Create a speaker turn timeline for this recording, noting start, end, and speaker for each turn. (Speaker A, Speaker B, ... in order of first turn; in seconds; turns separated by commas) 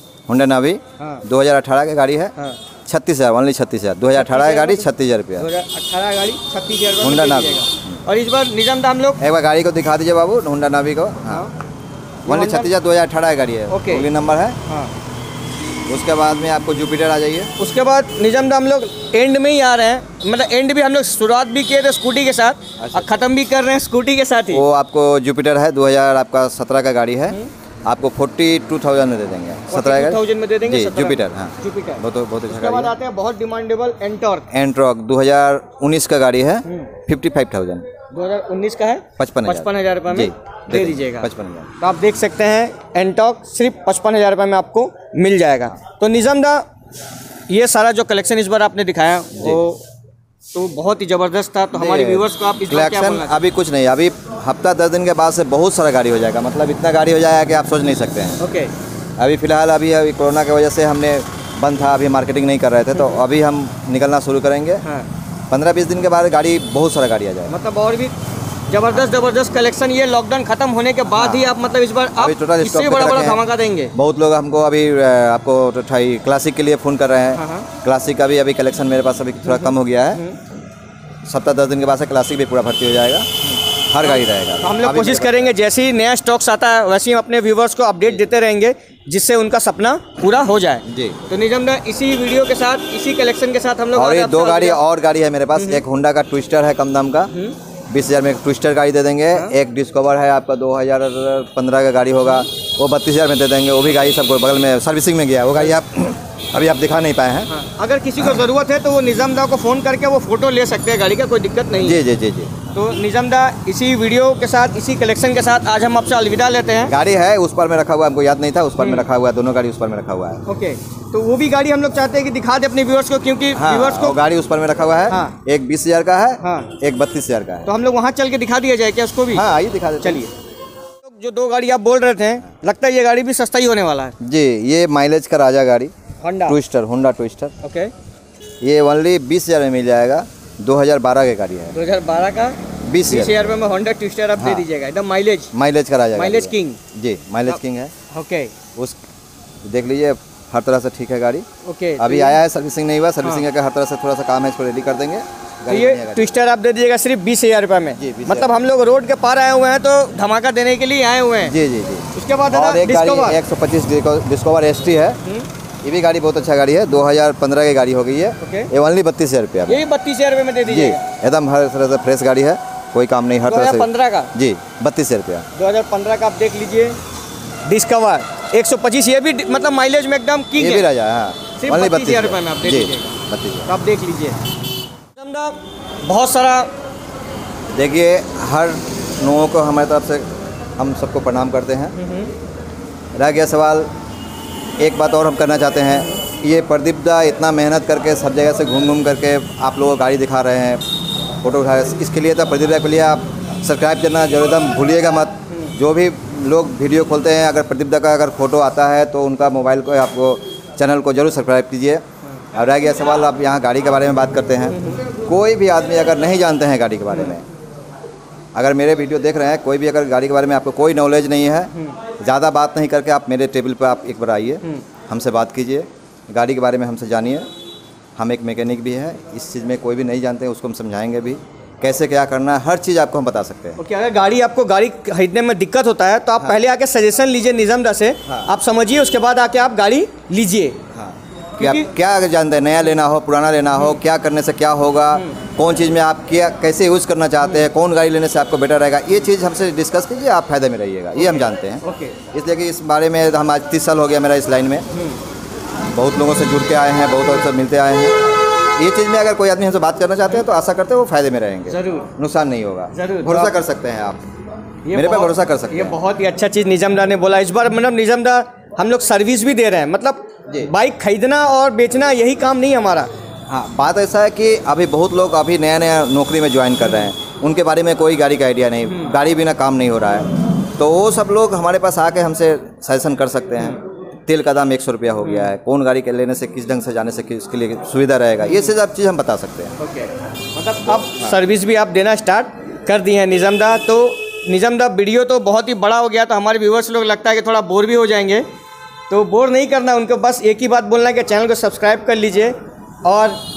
Speaker A: 0.3-2.3, Speaker B: 1.0-1.2, Speaker A: 2.9-5.5, Speaker B: 4.1-9.2, Speaker A: 7.0-8.0, Speaker A: 9.2-11.5, Speaker B: 11.2-11.5, Speaker B: 12.2-12.7, Speaker A: 12.3-14.6, Speaker B: 13.7-14.1, Speaker B: 14.6-14.9, Speaker A: 15.9-17.5, Speaker B: 17.6-24.6, Speaker A: 22.8-23.1, Speaker A: 24.5-32.9, Speaker B: 29.7-34.5, Speaker A: 34.5-37.9, Speaker B: 36.6-36.9, Speaker B: 38.1-46.6, Speaker A: 39.2-41.7, Speaker B: 47.5-49.8, Speaker A: 49.3-49.6, Speaker B: 50.5-53.4, Speaker A: 51.7-58.4, Speaker B: 58.4-58.7, Speaker A: 59.2-64.8, Speaker B: 62.9-63.2, Speaker B: 64.8-65.1, Speaker A: 65.5-67.5, Speaker B: 67.5-68.2, Speaker B: 68.7-73.9, Speaker A: 71.1-71.6, Speaker A: 72.1-73.4, Speaker A: 73.9-80.2, Speaker B: 77.3-77.7, Speaker B: 79.4-80.4, Speaker A: 81.2-83.3, Speaker B: 83.4-94.8, Speaker A: 83.9-85.5, Speaker A: 90.8-91.2, Speaker A: 93.9-97.3, Speaker B: 95.5-95.8, Speaker B: 97.3-97.6, Speaker A: 97.9-107.5, Speaker B: 107.5-112.0, Speaker A: 108.2-108.5, Speaker A: 111.8-112.7, Speaker B: 112.7-116.9, Speaker A: 116.8-120.4, Speaker B: 118.8-119.1, Speaker B: 120.5-124.2, Speaker A: 123.5-127.7, Speaker B: 125.1-125.3, Speaker B: 126.4-126.7, Speaker B: 127.7-129.5, Speaker A: 129.3-130.2, Speaker B: 130.0-130.3, Speaker B: 131.0-134.1, Speaker A: 134.2-135.9, Speaker B: 136.2-136.6, Speaker A: 136.4-137.5, Speaker B: 137.6-137.9, Speaker A: 138.6-141.8, Speaker B: 141.7-145.5, Speaker A: 142.9-143.6, Speaker A: 144.3-144.6, Speaker A: 145.5-147.9, Speaker B: 146.1-146.8, Speaker B: 148.1-148.5, Speaker A: 149.6-151.5, Speaker B: 151.6-152.4, Speaker A: 152.0-156.3, Speaker B: 155.7-161.6, Speaker A: 158.0-158.5, Speaker A: 161.4-165.2, Speaker B: 162.1-163.4, Speaker A: 165.8-169.8, Speaker B: 168.4-168.7, Speaker B: 169.7-171.0, Speaker A: 170.6-175.5, Speaker B: 173.5-174.3, Speaker B: 175.5-177.0, Speaker B: 177.7-180.9, Speaker A: 180.6-183.7, Speaker B: 181.6-184.4, Speaker B: 185.2-186.7, Speaker A: 187.7-191.9, Speaker B: 191.9-192.3, Speaker A: 193.1-193.9, Speaker A: 194.8-200.8, Speaker B: 195.9-196.2, Speaker A: 201.4-217.4, Speaker B: 205.5-205.8, Speaker B: 214.7-215.0, Speaker B: 217.1-217.4, Speaker A: 218.5-227.5, Speaker B: 221.7-222.0, Speaker A: 228.2-233.8, Speaker B: 233.8-240.8, Speaker A: 238.2-238.5, Speaker A: 240.9-254.9, Speaker B: 241.6-241.9, Speaker B: 245.1-245.4, Speaker B: 247.4-247.7, Speaker B: 251.1-252.2, Speaker B: 254.9-255.2, Speaker A: 255.9-258.2, Speaker A: 258.7-264.2, Speaker B: 261.7-262.1, Speaker B: 262.9-263.5, Speaker B: 264.8-273.1, Speaker A: 264.9-266.0, Speaker A: 273.5-289.7, Speaker B: 276.8-277.1, Speaker B: 278.9-279.1, Speaker B: 285.2-285.5, Speaker B: 288.4-288.7, Speaker B: 289.8-298.4, Speaker A: 290.8-291.4, Speaker B: 299.1-303.4